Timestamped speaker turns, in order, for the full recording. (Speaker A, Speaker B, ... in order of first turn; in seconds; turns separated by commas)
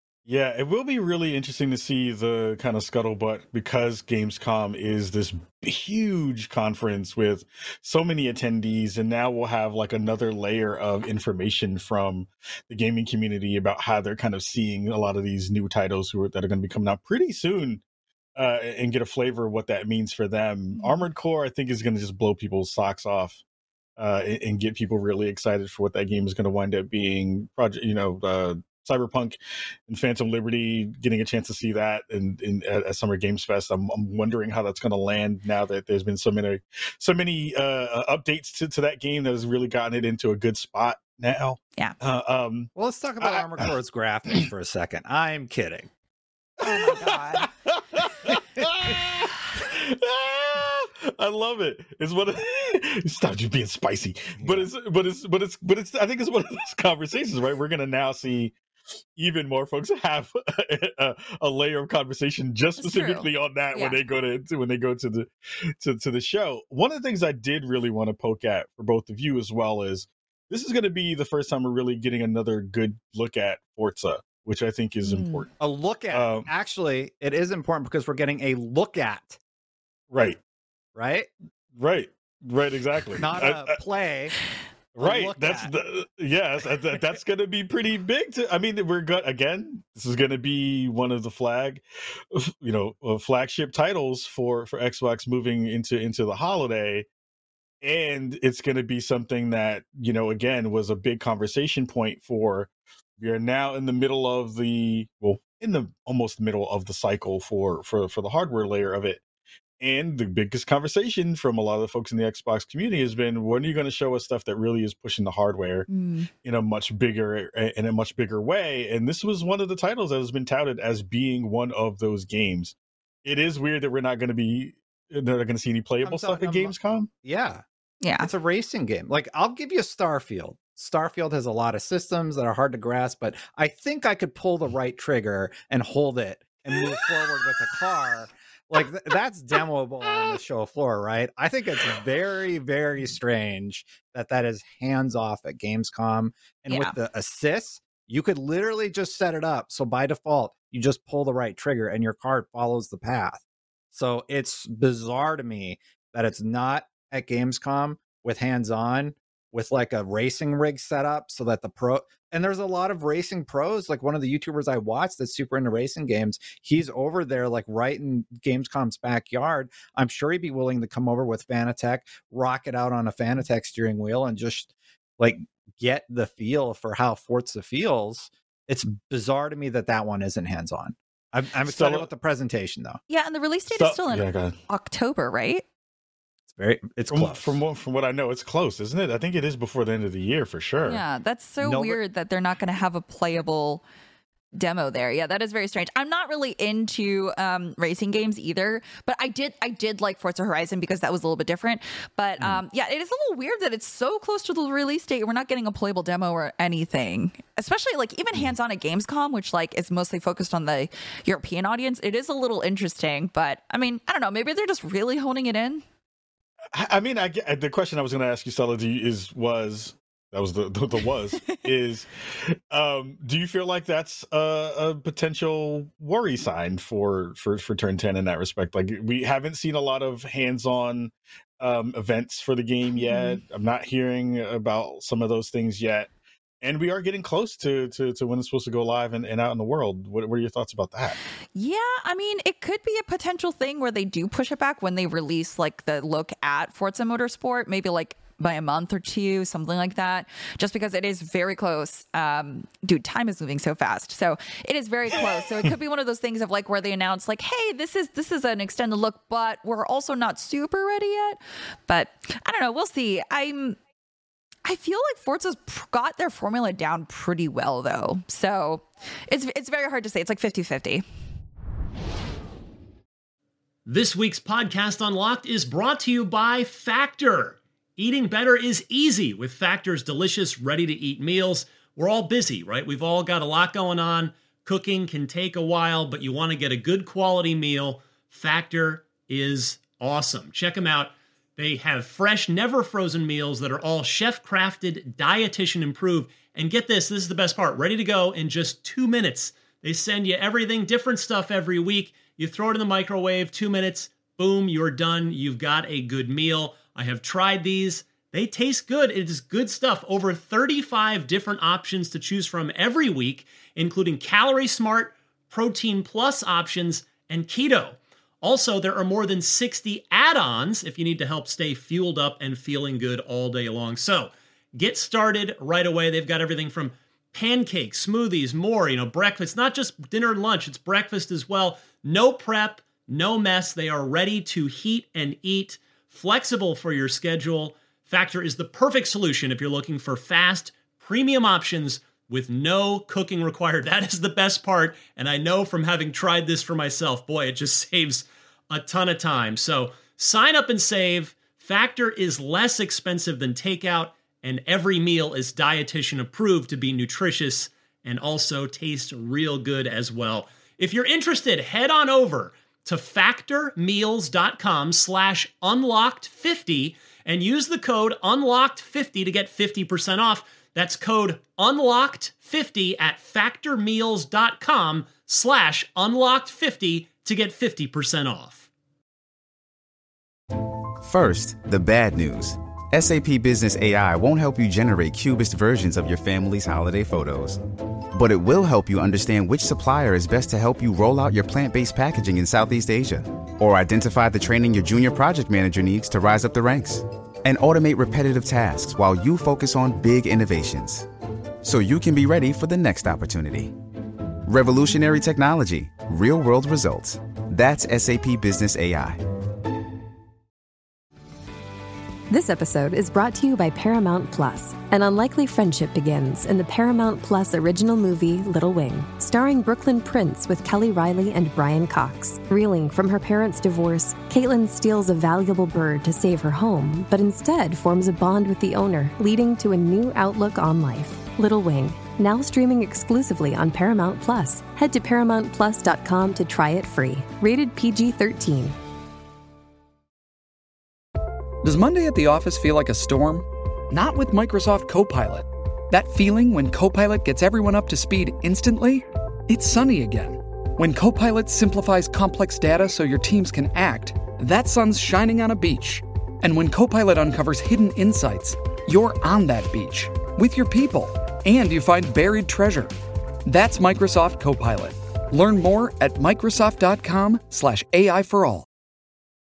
Speaker A: 0.2-17.8, Speaker A: 18.4-23.4, Speaker B: 20.8-21.0, Speaker A: 24.0-43.7, Speaker C: 42.7-45.9, Speaker C: 46.6-47.5, Speaker A: 46.6-58.5, Speaker C: 48.3-49.0, Speaker C: 54.4-54.7, Speaker A: 59.1-65.3, Speaker B: 62.8-64.0, Speaker A: 65.8-75.5, Speaker B: 75.0-75.4, Speaker C: 75.6-79.4, Speaker A: 76.1-76.5, Speaker A: 80.1-80.4, Speaker C: 80.9-81.3, Speaker A: 81.8-83.8, Speaker C: 83.2-84.3, Speaker A: 84.9-97.1, Speaker C: 85.0-85.7, Speaker A: 97.8-109.2, Speaker A: 109.8-115.9, Speaker B: 115.9-116.3, Speaker A: 116.4-127.1, Speaker C: 126.0-127.6, Speaker B: 128.0-128.3, Speaker C: 128.2-183.0, Speaker B: 146.7-146.9, Speaker A: 181.7-182.1, Speaker B: 183.1-185.6, Speaker A: 183.7-184.6, Speaker C: 186.5-187.6, Speaker A: 187.1-191.0, Speaker B: 190.8-193.8, Speaker C: 191.6-192.0, Speaker B: 194.5-215.8, Speaker A: 216.7-236.1, Speaker B: 233.0-233.4, Speaker A: 236.6-241.2, Speaker B: 241.5-263.8, Speaker B: 264.6-271.0, Speaker D: 273.9-378.6, Speaker E: 381.0-387.6, Speaker E: 388.1-401.1, Speaker E: 401.6-403.8, Speaker E: 404.4-409.2, Speaker F: 412.3-438.8, Speaker G: 441.6-462.9, Speaker G: 463.5-468.6